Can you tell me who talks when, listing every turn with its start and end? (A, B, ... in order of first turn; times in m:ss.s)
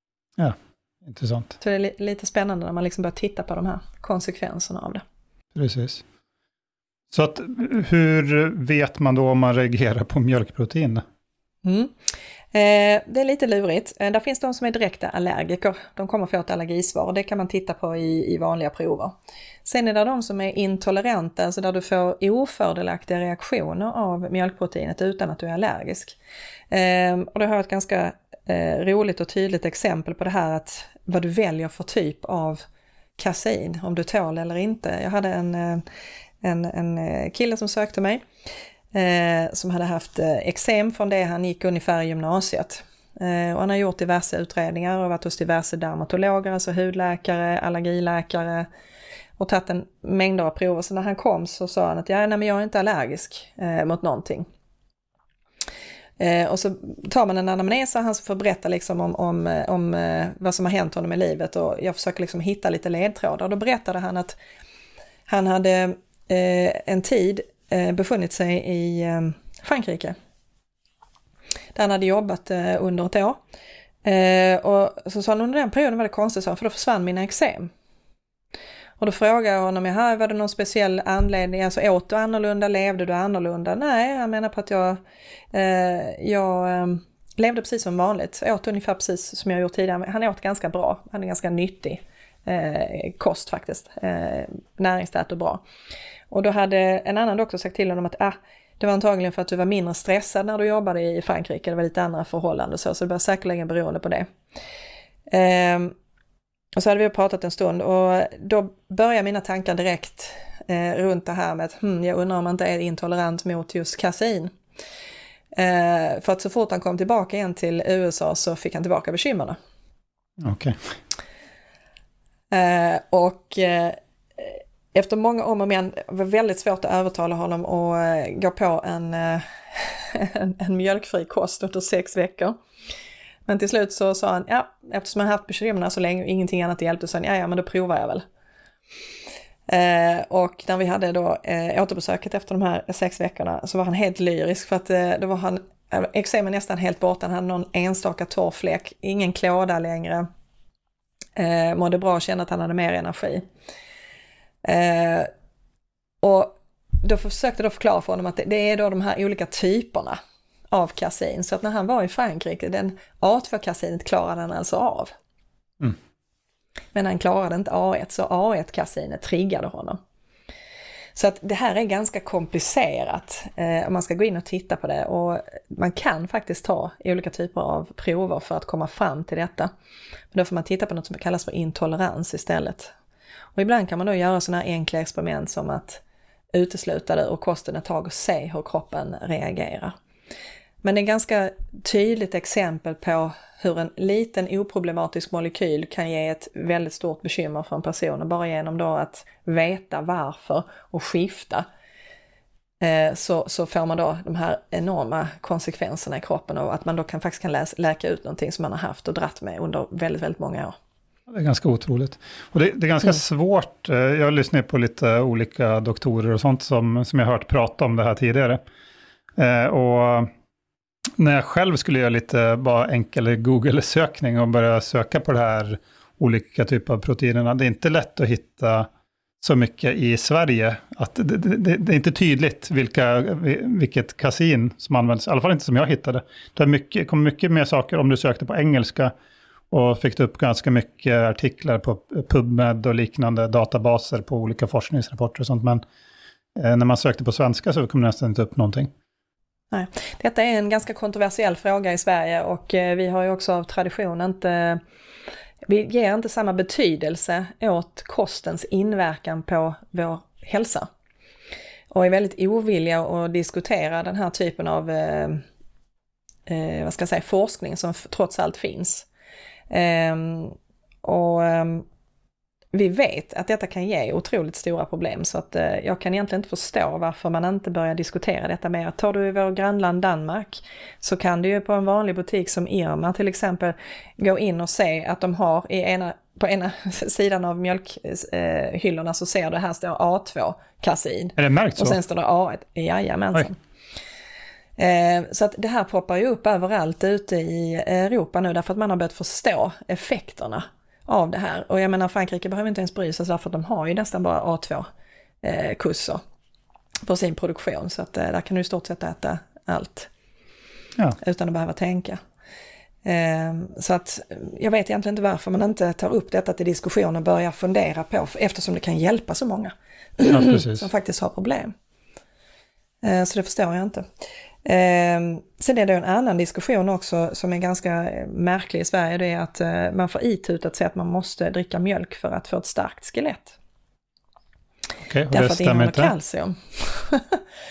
0:00.4-0:01.6 A
0:01.6-0:05.0 B
0:05.5-0:06.0 A
0:07.1-0:11.0 A
0:11.6-0:11.9 B
0:12.5-0:19.1 B
0:19.6-0:26.2 B
0:26.7-0:32.6 B
0:33.2-0:35.8 B
0:36.4-0:38.2 B
0:38.9-0:48.7 B
0:49.4-0:54.4 B
0:56.2-1:04.4 B
1:05.3-1:10.2 B
1:11.7-1:13.4 B
1:14.0-1:17.7 B
1:19.0-1:25.0 B
1:25.5-1:35.6 B
1:36.3-1:44.3 B
1:45.3-1:45.9 B
1:46.8-1:54.5 B
1:55.5-1:59.6 B
2:00.4-2:00.8 A
2:02.5-2:12.6 B
2:13.5-2:18.2 B
2:19.7-2:30.2 B
2:31.4-2:33.4 B
2:34.6-2:35.3 B
2:36.2-2:40.2 B
2:40.7-2:45.1 B
2:46.9-2:50.0 B
2:51.1-2:59.7 B
3:00.3-3:02.9 B
3:03.5-3:06.0 B
3:06.5-3:09.9 B
3:10.8-3:21.6 B
3:22.8-3:30.7 B
3:31.3-3:38.6 A
3:39.4-3:40.3 A
3:41.2-3:48.9 A
3:49.4-3:59.1 A
3:59.7-4:05.8 A
4:06.5-4:08.9 A
4:09.7-4:14.8 B
4:15.6-4:20.9 B
4:21.9-4:25.4 B
4:26.5-4:29.1 B
4:29.7-4:31.8 B
4:32.7-4:53.6 B
4:51.4-4:52.0 A
4:54.8-5:04.9 B
5:05.4-5:06.2 B
5:07.0-5:10.1 B
5:11.2-5:12.2 B
5:13.0-5:21.7 B
5:20.3-5:20.8 A
5:23.0-5:24.0 B
5:24.6-5:33.6 B
5:35.0-5:36.1 A
5:35.3-5:37.4 B